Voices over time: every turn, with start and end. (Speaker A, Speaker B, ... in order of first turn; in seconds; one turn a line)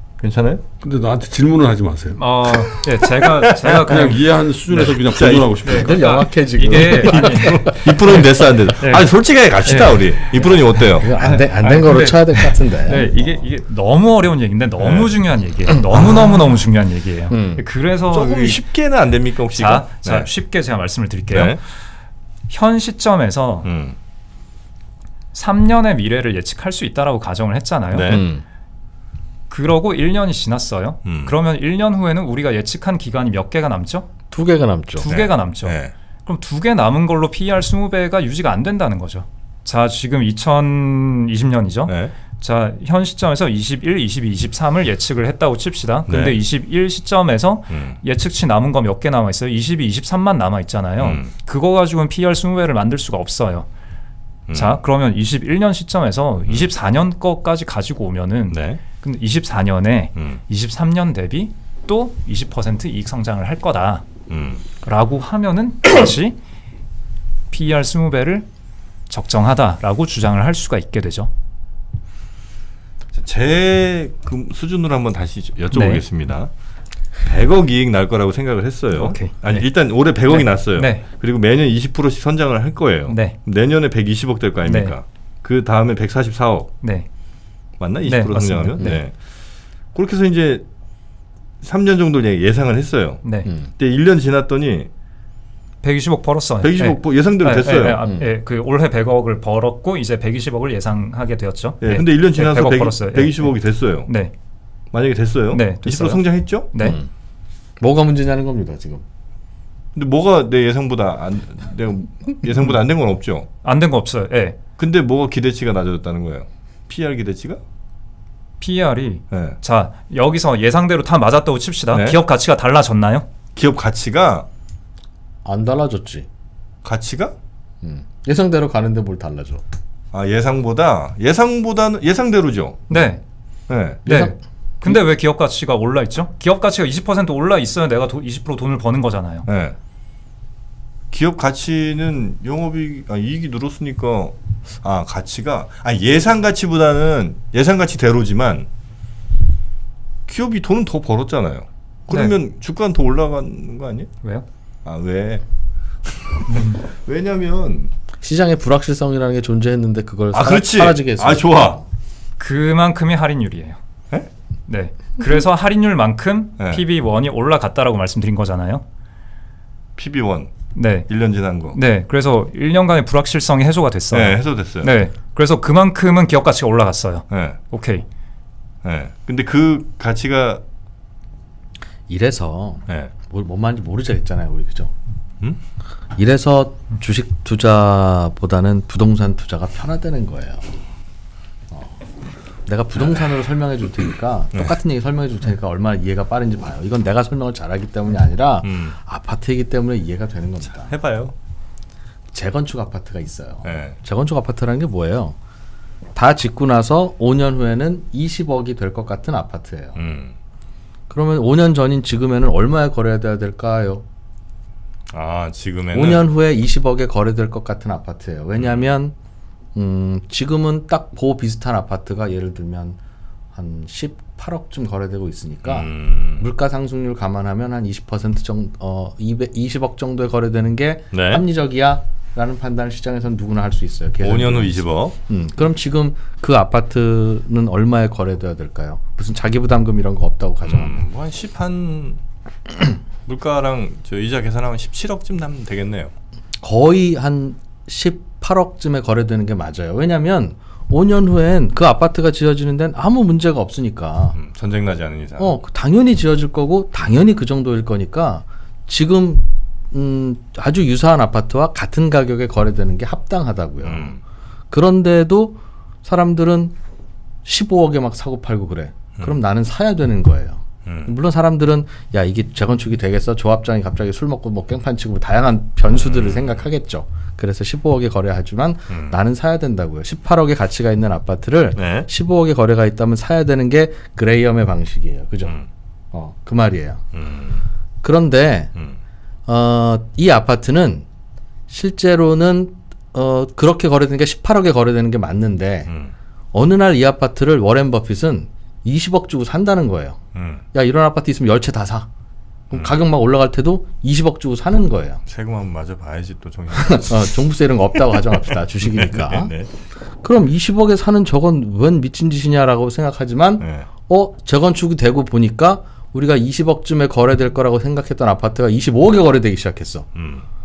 Speaker A: 0.2-0.6
Speaker B: 0.8-2.6
Speaker C: 2.2-4.9
Speaker A: 3.6-4.1
Speaker B: 3.6-6.0
Speaker A: 4.7-6.0
Speaker C: 5.6-9.1
Speaker D: 5.6-7.8
Speaker A: 6.7-11.1
Speaker C: 9.6-10.3
Speaker D: 10.8-13.1
Speaker C: 11.2-18.6
Speaker A: 14.8-15.1
Speaker D: 17.3-17.6
Speaker A: 18.1-20.3
Speaker C: 19.5-21.8
Speaker A: 21.3-21.6
Speaker C: 22.5-23.7
Speaker A: 23.6-24.0
Speaker C: 25.3-28.2
Speaker A: 27.9-28.3
Speaker D: 28.1-28.4
Speaker C: 29.5-34.1
Speaker A: 31.1-31.3
Speaker D: 34.3-35.1
Speaker C: 35.0-53.7
Speaker A: 35.0-35.9
Speaker A: 41.9-42.1
Speaker A: 46.1-46.4
Speaker A: 47.7-48.0
Speaker A: 51.0-51.3
Speaker A: 54.5-54.8
Speaker C: 54.5-64.1
Speaker A: 58.5-58.8
Speaker A: 64.3-64.6
Speaker C: 64.8-66.4
Speaker C: 67.5-68.5
Speaker C: 69.1-71.3
Speaker A: 73.2-76.5
Speaker C: 75.7-76.0
Speaker A: 77.2-86.7
Speaker C: 78.9-79.7
Speaker C: 80.3-81.0
Speaker C: 83.1-83.4
Speaker C: 84.7-85.0
Speaker C: 86.8-87.1
Speaker A: 87.8-89.2
Speaker C: 88.0-89.0
Speaker A: 89.9-90.6
Speaker A: 91.6-94.9
Speaker C: 93.2-93.5
Speaker C: 95.8-104.3
Speaker A: 96.6-98.0
Speaker A: 101.8-104.1
Speaker A: 104.9-106.7
Speaker C: 105.5-107.0
Speaker D: 106.8-107.1
Speaker D: 107.8-109.0
Speaker A: 110.0-113.5
Speaker C: 113.6-114.6
Speaker A: 114.8-117.6
Speaker C: 118.6-123.3
Speaker A: 119.3-119.6
Speaker A: 121.9-122.2
Speaker A: 123.6-124.5
Speaker D: 125.4-126.3
Speaker A: 126.8-127.3
Speaker D: 127.8-129.6
Speaker A: 130.1-133.0
Speaker C: 132.9-133.2
Speaker A: 133.7-134.0
Speaker D: 134.1-134.3
Speaker C: 134.1-139.5
Speaker A: 139.5-139.8
Speaker A: 141.1-148.7
Speaker A: 150.3-154.1
Speaker C: 152.1-152.3
Speaker A: 154.8-155.4
Speaker A: 156.3-157.9
Speaker C: 156.5-156.8
Speaker D: 158.2-161.8
Speaker A: 160.3-161.8
Speaker C: 162.4-163.8
Speaker C: 164.7-168.8
Speaker A: 170.0-170.6
Speaker C: 170.7-171.1
Speaker A: 171.1-171.8
Speaker C: 171.7-178.1
Speaker A: 174.1-174.9
Speaker A: 177.3-177.6
Speaker A: 178.8-180.6
Speaker D: 182.1-184.9
Speaker D: 186.2-190.8
Speaker D: 191.7-192.1
Speaker D: 192.7-200.9
Speaker A: 198.6-198.9
Speaker A: 200.7-201.3
Speaker D: 202.3-205.4
Speaker A: 203.6-204.0
Speaker D: 206.2-210.0
Speaker A: 210.0-210.3
Speaker D: 211.1-214.0
Speaker A: 215.1-216.3
Speaker D: 215.9-219.2
Speaker A: 218.6-218.9
Speaker D: 219.8-223.0
Speaker D: 223.5-241.0
Speaker A: 225.6-226.5
Speaker A: 231.1-231.4
Speaker A: 234.2-235.2
Speaker A: 240.7-242.2
Speaker A: 243.3-246.1
Speaker D: 246.6-254.4
Speaker A: 254.4-255.6
Speaker D: 255.4-264.1
Speaker A: 263.9-264.2
Speaker D: 264.7-266.7
Speaker D: 267.4-285.6
Speaker A: 270.9-271.1
Speaker A: 275.9-276.5
Speaker A: 278.9-279.2
Speaker A: 281.8-282.1
Speaker D: 286.1-287.0
Speaker A: 287.1-287.6
Speaker D: 288.0-288.7
Speaker D: 289.5-291.1
Speaker D: 291.7-295.9
Speaker D: 296.5-300.2
Speaker A: 300.4-300.6
Speaker D: 300.7-302.1
Speaker D: 302.7-305.2
Speaker A: 302.7-303.0
Speaker A: 305.3-307.3
Speaker D: 306.8-309.5
Speaker A: 308.8-309.7
Speaker D: 310.1-320.1
Speaker A: 313.6-313.9
Speaker A: 320.1-320.4